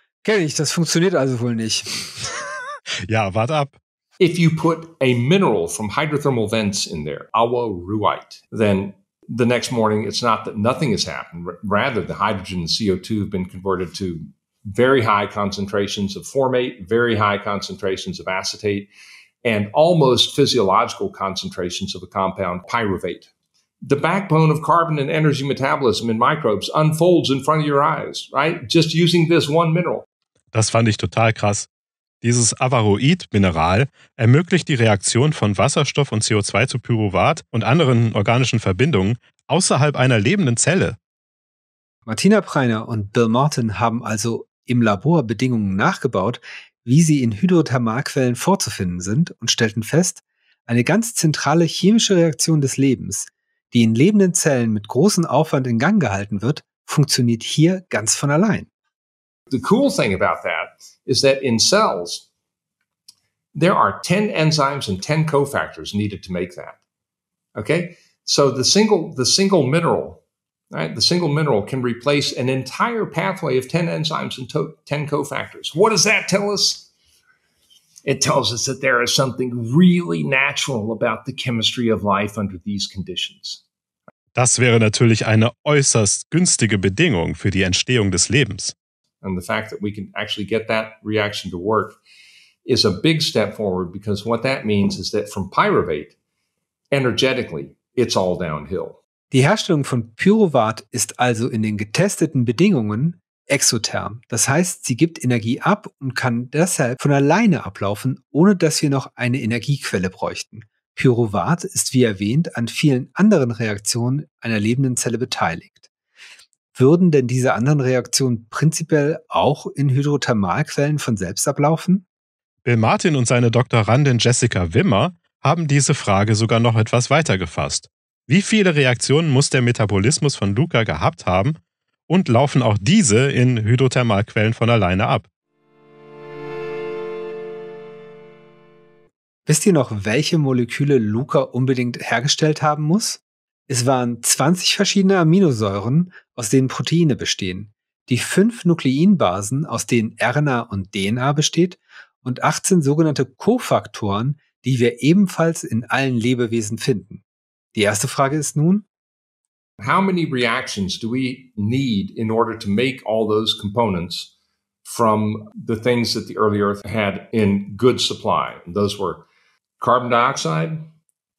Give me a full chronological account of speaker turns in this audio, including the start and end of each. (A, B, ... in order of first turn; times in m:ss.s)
0:00.2-0:02.1 A
0:03.1-0:03.8 B
0:04.2-0:18.9 C
0:19.4-0:23.3 C
0:23.8-0:30.0 C
0:30.5-0:31.7 B
0:32.2-0:41.0 B
0:42.1-0:58.7 A
0:59.5-1:02.3 C
1:03.5-1:06.8 C
1:07.6-1:16.9 C
1:18.0-1:23.6 C
1:24.4-1:28.7 B
1:29.2-1:32.0 C
1:32.6-1:36.2 C
1:36.9-1:39.0 C
1:39.3-1:55.8 A
1:56.8-2:02.0 A
2:02.6-2:11.6 B
2:12.1-2:15.3 B
2:19.5-2:37.2 A
2:37.7-2:38.9 A
2:39.8-2:44.3 C
2:44.8-2:49.3 C
2:49.8-2:50.9 C